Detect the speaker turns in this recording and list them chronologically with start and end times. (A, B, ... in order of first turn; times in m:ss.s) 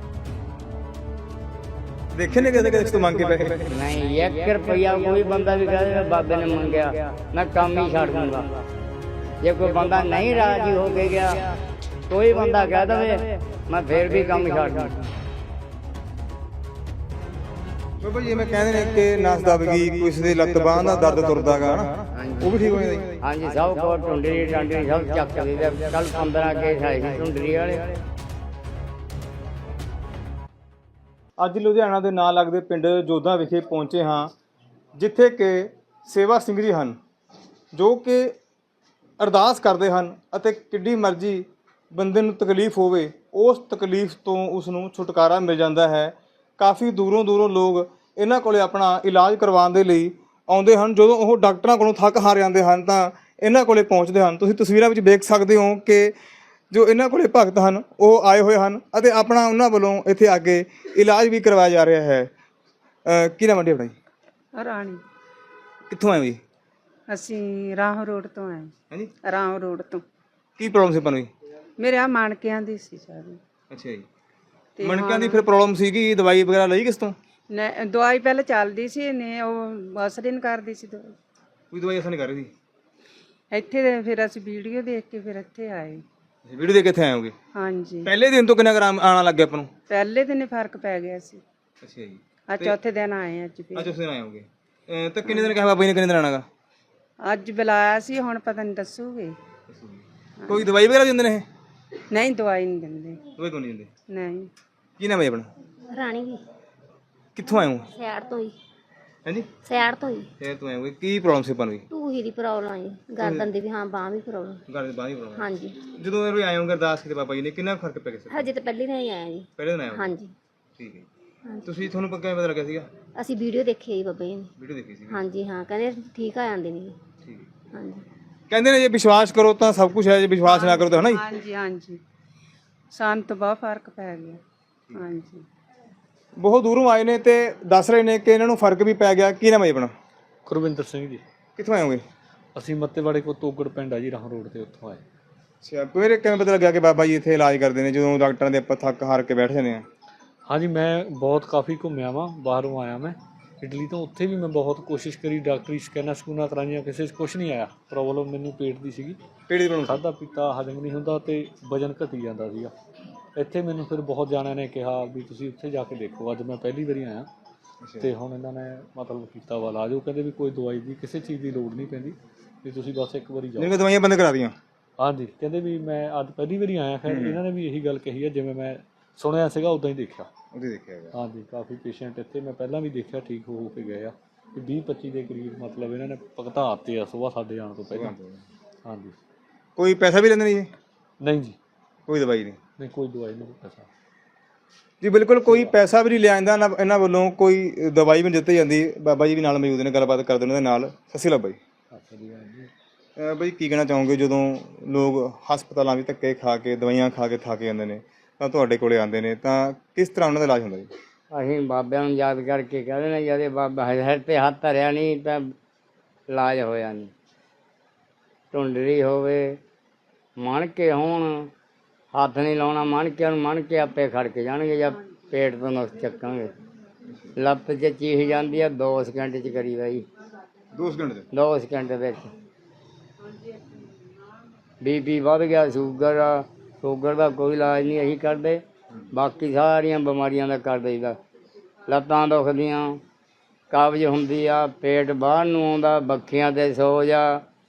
0:02.1-0:03.7 A
0:03.7-0:08.4 B
0:09.4-0:11.4 B
0:12.1-0:13.1 B
0:13.7-0:14.9 B
0:18.0-0:23.2 A
0:23.2-0:27.8 B
0:31.4-0:34.3 A
0:35.0-0:37.0 A
0:37.7-0:38.3 A
0:39.2-0:56.1 A
0:56.7-1:02.3 A
1:03.1-1:04.0 A
1:04.6-1:05.0 C
1:05.9-1:06.4 A
1:07.1-1:08.7 C
1:09.2-1:10.0 C
1:10.6-1:11.3 A
1:11.8-1:13.4 C
1:13.7-1:14.0 A
1:14.8-1:15.4 C
1:14.8-1:17.2 A
1:17.5-1:21.1 C
1:21.7-1:22.5 A
1:23.5-1:26.0 C
1:26.5-1:27.3 A
1:27.5-1:28.1 C
1:28.0-1:29.7 A
1:29.9-1:31.4 C
1:31.8-1:32.8 A
1:32.5-1:33.9 C
1:33.7-1:36.5 A
1:37.2-1:39.4 C
1:39.7-1:41.4 A
1:42.1-1:43.2 C
1:43.4-1:43.9 A
1:44.1-1:44.5 C
1:45.0-1:45.5 A
1:45.9-1:46.4 D
1:47.4-1:47.9 A
1:47.5-1:48.5 D
1:49.6-1:50.3 D
1:50.4-1:51.8 A
1:51.9-1:54.6 D
1:53.2-1:53.5 A
1:54.7-1:58.5 A
1:55.4-1:55.8 D
1:58.3-2:00.3 D
1:59.6-2:00.2 A
2:00.8-2:01.1 A
2:01.5-2:01.8 D
2:01.6-2:02.9 A
2:03.2-2:04.5 D
2:04.6-2:05.3 A
2:05.1-2:07.0 D
2:07.7-2:08.0 D
2:08.5-2:11.2 A
2:10.4-2:12.0 C
2:12.9-2:14.4 C
2:14.9-2:15.4 C
2:16.4-2:19.9 A
2:20.5-2:21.2 E
2:21.6-2:22.0 A
2:22.6-2:25.0 E
2:25.6-2:29.8 A
2:30.5-2:39.2 E
2:39.5-2:40.0 A
2:39.8-2:42.7 E
2:43.4-2:47.3 E
2:47.8-2:48.1 A
2:48.0-2:53.7 E
2:53.6-2:54.6 A
2:55.0-3:00.3 E
2:57.1-2:57.4 A
3:00.5-3:01.1 A
3:01.1-3:08.1 E
3:07.9-3:08.4 A
3:08.8-3:09.2 E
3:09.8-3:10.7 A
3:11.2-3:11.6 E
3:12.1-3:12.6 A
3:12.8-3:13.9 E
3:15.0-3:21.6 A
3:23.2-3:30.9 A
3:31.3-3:35.5 B
3:36.3-3:37.1 B
3:38.5-3:39.6 B
3:40.4-3:41.5 B
3:42.1-3:46.5 B
3:47.4-3:50.0 B
3:50.7-3:51.3 A
3:51.3-3:52.3 B
3:54.8-3:58.6 B
3:59.1-4:01.2 B
4:01.9-4:03.0 B
4:03.7-4:07.4 B